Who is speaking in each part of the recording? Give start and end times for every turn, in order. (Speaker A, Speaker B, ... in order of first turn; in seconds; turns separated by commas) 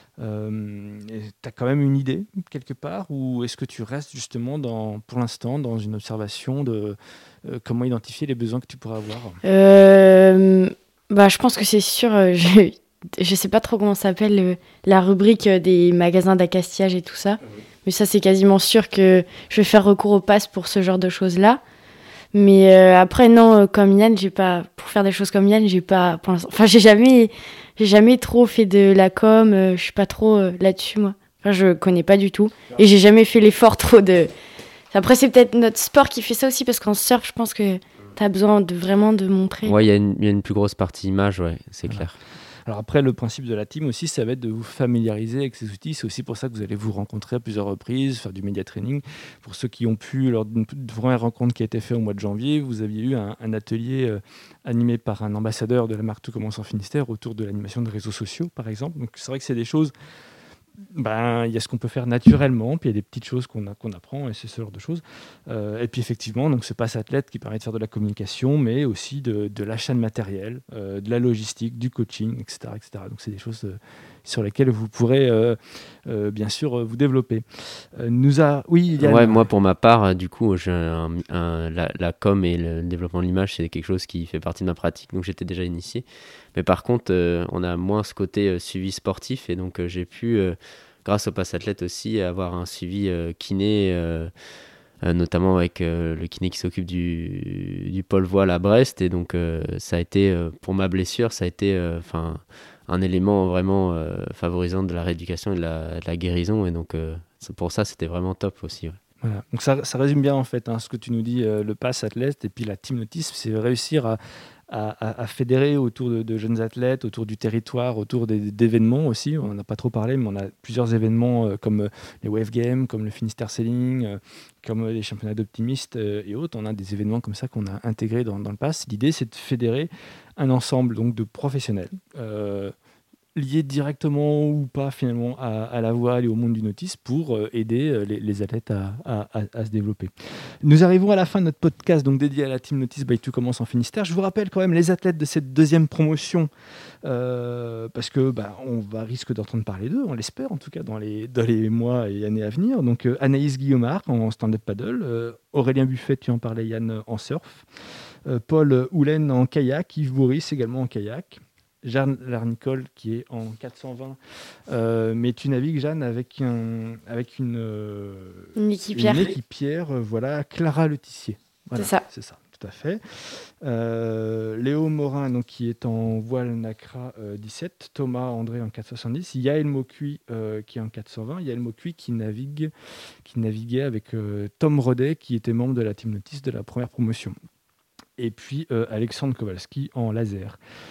Speaker A: 0.2-9.4, Speaker B: 9.4-21.6, Speaker B: 22.3-34.3, Speaker B: 34.9-39.8, Speaker C: 39.6-42.1, Speaker A: 42.7-59.9, Speaker A: 60.9-79.5, Speaker C: 79.0-94.3, Speaker C: 95.0-109.0, Speaker A: 109.2-114.2, Speaker A: 114.7-132.7, Speaker A: 133.3-140.1, Speaker A: 140.6-146.5, Speaker A: 147.0-157.7, Speaker A: 158.2-164.2, Speaker A: 164.7-182.7, Speaker B: 168.6-169.3, Speaker B: 171.8-172.1, Speaker A: 183.2-187.4, Speaker A: 188.2-190.6